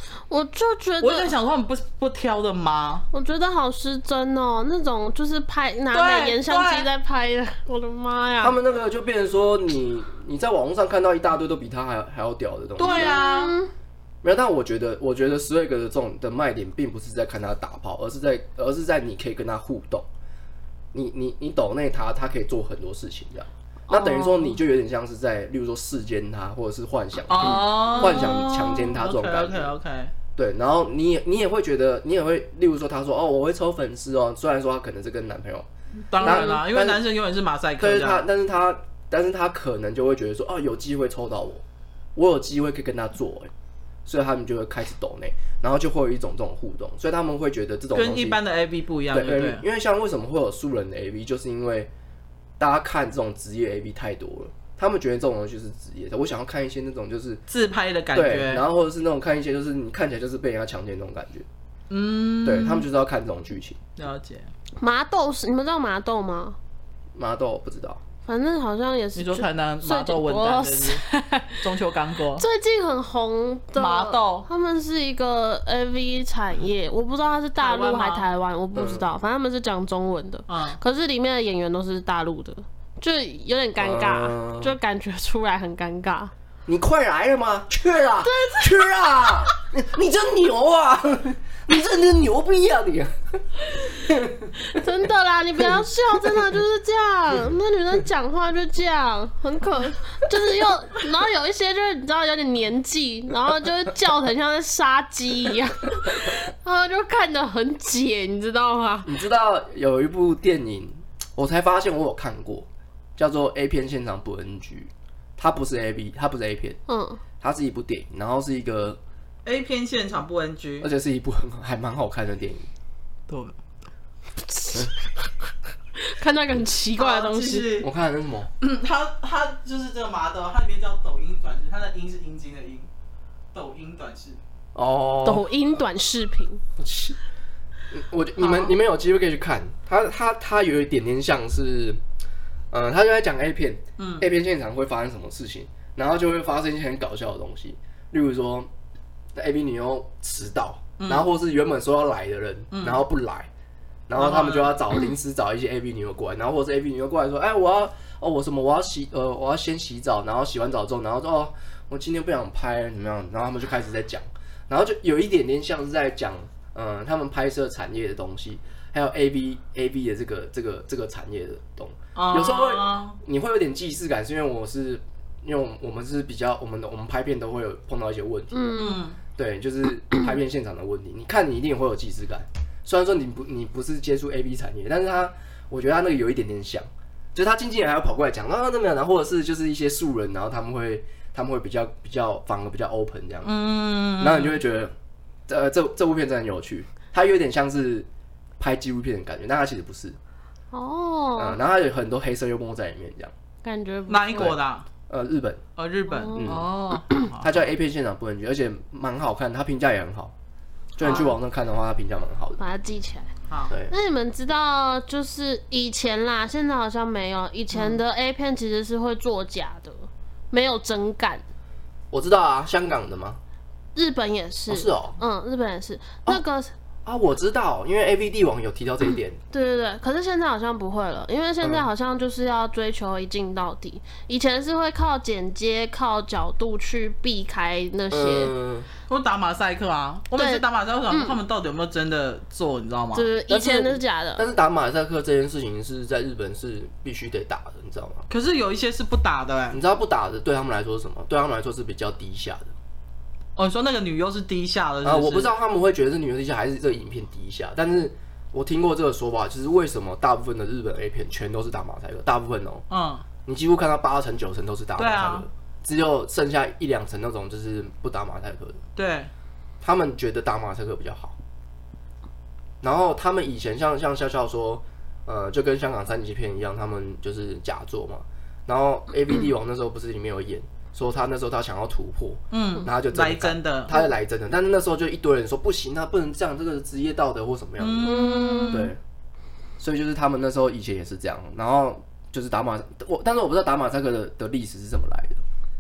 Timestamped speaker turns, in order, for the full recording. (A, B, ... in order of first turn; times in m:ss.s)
0:00.3-0:01.3 A
0:01.0-0:03.1 B
0:03.1-0:08.6 A
0:05.9-0:06.9 B
0:08.4-0:13.2 C
0:12.8-0:13.5 B
0:12.8-0:13.7 A
0:14.2-0:20.1 C
0:20.9-0:29.7 C
0:23.9-0:24.6 A
0:27.3-0:30.1 B
0:27.8-0:28.2 A
0:30.4-0:35.7 C
0:36.1-0:38.3 B
0:36.2-0:37.0 C
0:36.2-0:36.6 A
0:37.8-0:41.6 C
0:42.2-0:43.5 C
0:44.1-0:48.4 C
0:48.0-0:49.6 B
0:49.1-0:51.9 C
0:52.6-0:57.4 C
0:57.5-0:58.6 B
0:58.1-1:01.5 C
1:01.9-1:02.9 B
1:02.4-1:03.8 C
1:04.0-1:04.5 B
1:04.8-1:06.6 A
1:07.2-1:08.0 C
1:08.3-1:11.6 A
1:09.2-1:12.4 B
1:12.4-1:26.3 A
1:13.8-1:14.5 B
1:17.6-1:18.3 B
1:18.8-1:19.0 C
1:20.5-1:20.8 B
1:23.8-1:24.8 C
1:26.7-1:33.1 C
1:28.2-1:29.3 A
1:33.7-1:34.8 C
1:34.6-1:49.2 A
1:35.8-1:36.5 C
1:49.0-1:56.8 C
1:56.9-1:57.2 A
1:57.4-1:59.0 C
1:59.5-2:00.9 B
2:00.8-2:02.7 C
2:03.3-2:03.6 B
2:04.5-2:05.1 A
2:06.0-2:07.7 A
2:07.0-2:07.9 B
2:07.8-2:08.5 C
2:08.6-2:12.9 B
2:13.5-2:14.4 B
2:14.8-2:15.4 C
2:15.2-2:16.6 A
2:16.8-2:17.2 C
2:17.9-2:22.0 C
2:18.4-2:18.7 A
2:22.7-2:28.7 C
2:24.0-2:24.3 B
2:29.4-2:33.5 C
2:31.0-2:31.3 B
2:32.7-2:33.0 B
2:34.1-2:58.8 C
2:34.2-2:34.8 B
2:52.2-2:53.2 B
2:58.5-2:59.0 A
2:58.8-2:59.2 B
2:59.4-3:13.5 C
3:13.4-3:14.6 B
3:14.2-3:14.9 C
3:15.5-3:18.1 C
3:18.6-3:20.2 C
3:20.7-3:21.6 A
3:21.4-3:23.3 C
3:23.6-3:24.6 A
3:24.1-3:24.9 B
3:25.1-3:25.6 C
3:25.8-3:27.6 B
3:26.1-3:26.7 A
3:26.3-3:26.7 C
3:27.4-3:30.3 C
3:31.0-3:32.6 C
3:31.0-3:31.3 A
3:32.6-3:33.3 A
3:33.9-3:41.4 A
3:37.7-3:38.0 B
3:42.1-3:43.4 C
3:44.0-3:46.7 A
3:44.7-3:45.2 C
3:47.1-3:49.4 C
3:49.5-3:58.5 A
3:51.6-3:51.9 C
3:58.1-3:58.9 C
3:59.1-4:03.3 B
4:00.4-4:01.4 A
4:03.1-4:04.4 A
4:03.5-4:08.3 C
4:08.3-4:09.8 B
4:09.7-4:12.7 C
4:13.6-4:15.5 B
4:15.0-4:22.9 C
4:22.9-4:23.2 B
4:23.4-4:28.8 C
4:25.0-4:25.5 B
4:29.0-4:29.3 B
4:29.8-4:31.4 C
4:32.8-4:49.0 C
4:42.5-4:43.9 B
4:47.8-4:48.9 B
4:48.0-4:48.9 A
4:49.8-4:55.4 C